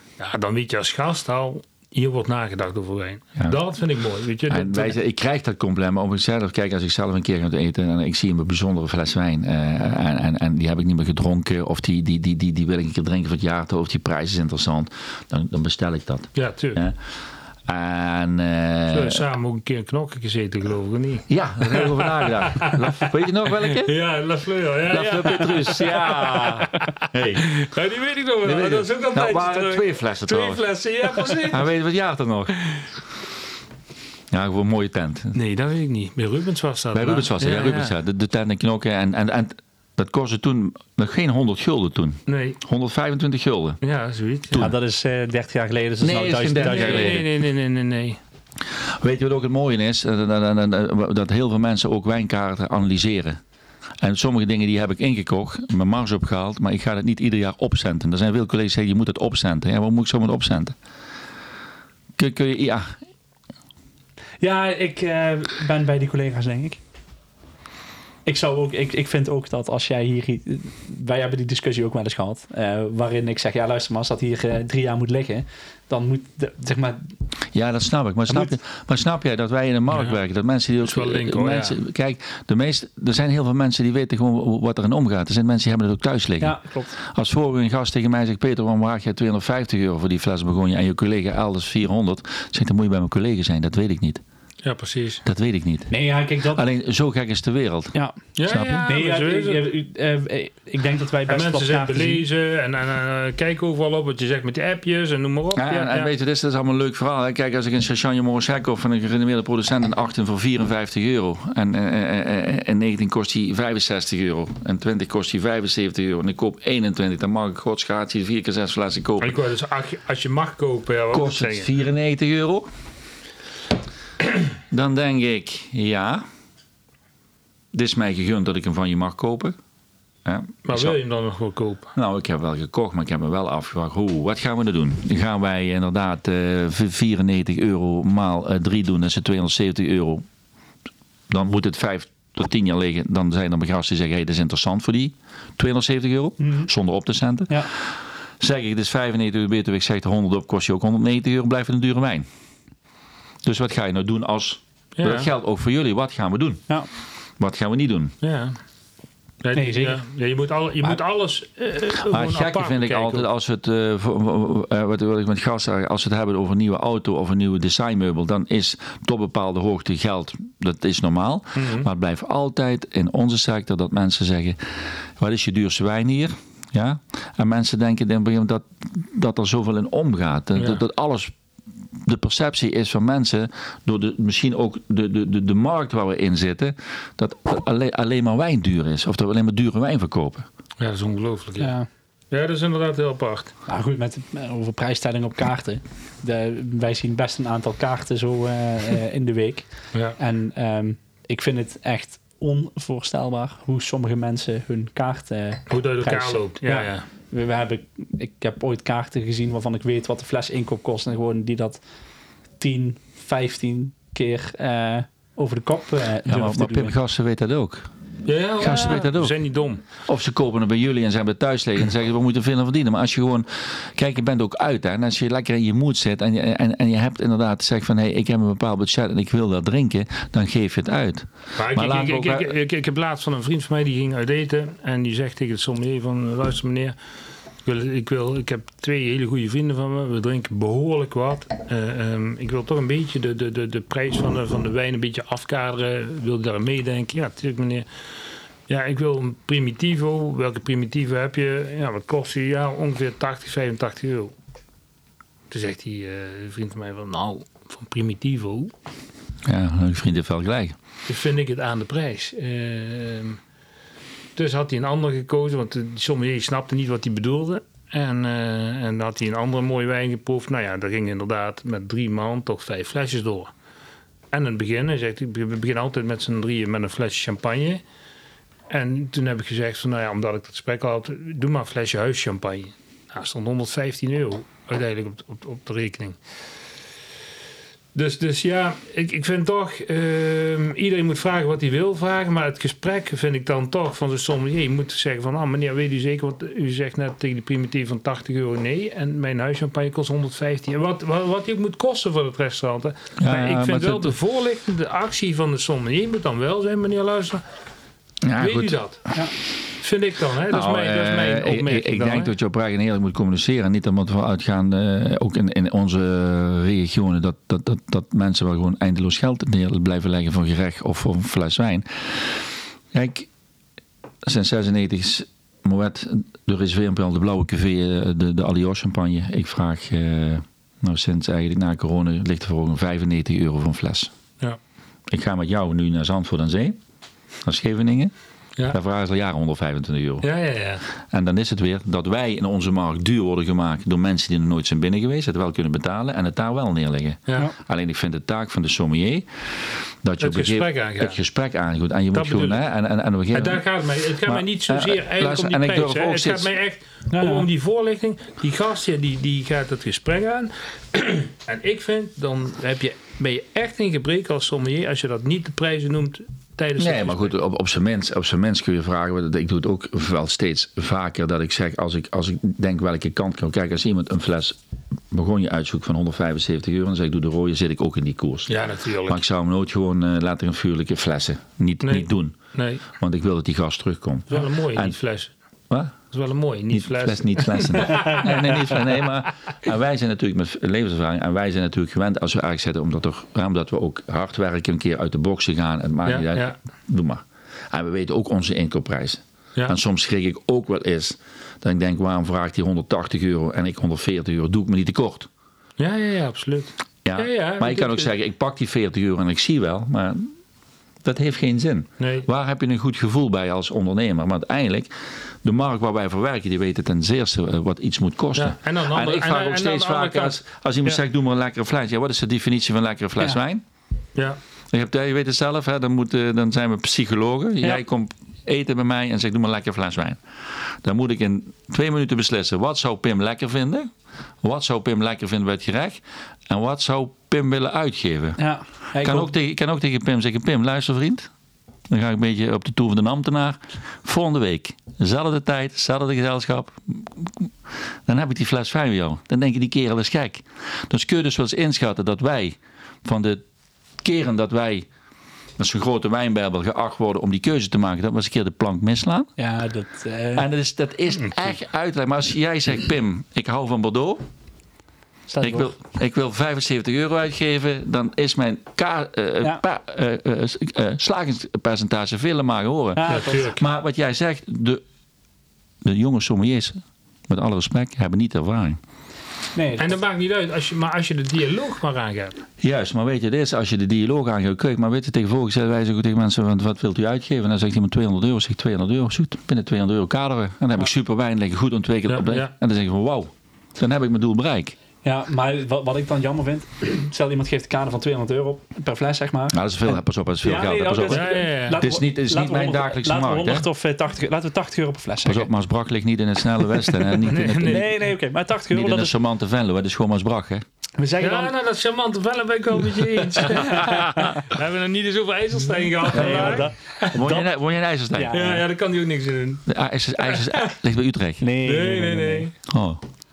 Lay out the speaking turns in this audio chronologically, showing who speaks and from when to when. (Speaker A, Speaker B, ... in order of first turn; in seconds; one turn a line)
Speaker A: 0.2-4.9
Speaker B: 4.5-17.0
Speaker A: 16.4-16.8
Speaker B: 17.6-19.2
Speaker A: 18.9-31.7
Speaker B: 21.3-23.9
Speaker B: 24.9-27.6
Speaker B: 28.4-30.6
Speaker B: 31.3-32.5
Speaker B: 34.3-35.4
Speaker A: 35.3-37.9
Speaker B: 36.9-43.8
Speaker A: 42.3-42.6
Speaker A: 43.8-44.7
Speaker C: 44.6-47.2
Speaker B: 46.0-47.3
Speaker A: 46.5-48.2
Speaker B: 48.8-53.4
Speaker B: 54.0-60.7
Speaker B: 62.1-63.0
Speaker C: 64.4-66.8
Speaker C: 68.2-77.1
Speaker B: 77.5-94.2
Speaker A: 80.8-81.8
Speaker C: 86.4-87.0
Speaker A: 94.6-95.2
Speaker B: 95.2-95.9
Speaker C: 95.9-96.6
Speaker B: 96.4-97.9
Speaker A: 98.3-99.7
Speaker B: 98.5-98.9
Speaker C: 98.8-102.2
Speaker A: 101.3-106.1
Speaker B: 105.5-119.4
Speaker A: 119.2-121.7
Speaker B: 121.1-122.7
Speaker B: 124.7-126.2
Speaker B: 127.7-129.6
Speaker B: 130.2-131.0
Speaker A: 130.6-131.9
Speaker B: 131.9-140.2
Speaker B: 141.3-152.3
Speaker C: 146.4-146.7
Speaker B: 153.4-156.7
Speaker A: 155.0-155.3
Speaker B: 157.4-158.1
Speaker A: 158.2-158.6
Speaker A: 159.4-163.2
Speaker C: 159.5-160.0
Speaker B: 161.9-181.3
Speaker A: 171.6-171.9
Speaker B: 182.0-190.5
Speaker A: 190.8-191.7
Speaker C: 191.6-191.9
Speaker A: 192.3-193.5
Speaker C: 193.7-211.8
Speaker A: 205.7-207.0
Speaker C: 212.6-216.9
Speaker B: 216.2-217.9
Speaker A: 218.2-219.8
Speaker B: 218.6-219.4
Speaker B: 220.0-232.5
Speaker A: 231.6-236.9
Speaker A: 237.6-247.9
Speaker A: 248.7-254.3
Speaker A: 255.5-258.7
Speaker B: 259.4-260.8
Speaker A: 261.1-263.4
Speaker A: 264.4-273.5
Speaker A: 274.3-277.8
Speaker A: 278.7-286.2
Speaker A: 287.9-307.4
Speaker B: 303.2-304.1
Speaker B: 308.2-308.8
Speaker A: 308.4-309.2
Speaker A: 309.8-312.3
Speaker B: 310.5-323.3
Speaker B: 324.2-334.1
Speaker B: 335.1-336.8
Speaker B: 337.4-338.1
Speaker B: 338.7-340.3
Speaker A: 340.2-340.8
Speaker B: 341.0-353.6
Speaker A: 350.2-351.2
Speaker A: 352.1-352.6
Speaker A: 353.3-367.3
Speaker B: 354.2-356.5
Speaker C: 357.1-357.4
Speaker B: 366.8-374.6
Speaker B: 375.1-382.4
Speaker A: 378.5-379.2
Speaker A: 381.8-382.8
Speaker B: 382.9-385.0
Speaker A: 384.3-385.3
Speaker B: 385.7-386.0
Speaker A: 386.1-388.9
Speaker B: 386.7-405.3
Speaker A: 396.1-396.6
Speaker A: 405.8-408.1
Speaker B: 407.0-410.3
Speaker B: 411.0-423.6
Speaker A: 412.0-412.3
Speaker A: 418.4-421.0
Speaker B: 424.7-433.9
Speaker B: 434.4-438.4
Speaker C: 438.4-439.3
Speaker B: 439.0-441.3
Speaker B: 441.9-447.5
Speaker B: 448.0-453.4
Speaker B: 454.0-454.9
Speaker B: 455.6-459.3
Speaker C: 459.4-460.5
Speaker B: 460.3-464.2
Speaker C: 465.3-465.7
Speaker B: 465.4-474.8
Speaker C: 472.9-473.6
Speaker A: 473.1-473.6
Speaker B: 475.8-478.8
Speaker C: 479.5-479.9
Speaker A: 479.8-482.4
Speaker B: 482.6-494.7
Speaker A: 492.1-492.5
Speaker C: 495.0-499.6
Speaker B: 499.5-503.7
Speaker C: 500.4-505.5
Speaker A: 501.1-501.8
Speaker B: 505.2-507.9
Speaker C: 507.0-509.1
Speaker A: 507.2-507.8
Speaker B: 508.7-510.6
Speaker C: 511.0-511.5
Speaker A: 511.2-517.1
Speaker B: 513.4-514.3
Speaker C: 513.7-514.4
Speaker C: 516.1-517.5
Speaker B: 516.1-518.3
Speaker C: 518.1-518.6
Speaker A: 518.3-519.6
Speaker B: 519.7-521.4
Speaker A: 520.2-520.7
Speaker C: 521.4-522.5
Speaker A: 521.6-522.5
Speaker B: 522.7-523.0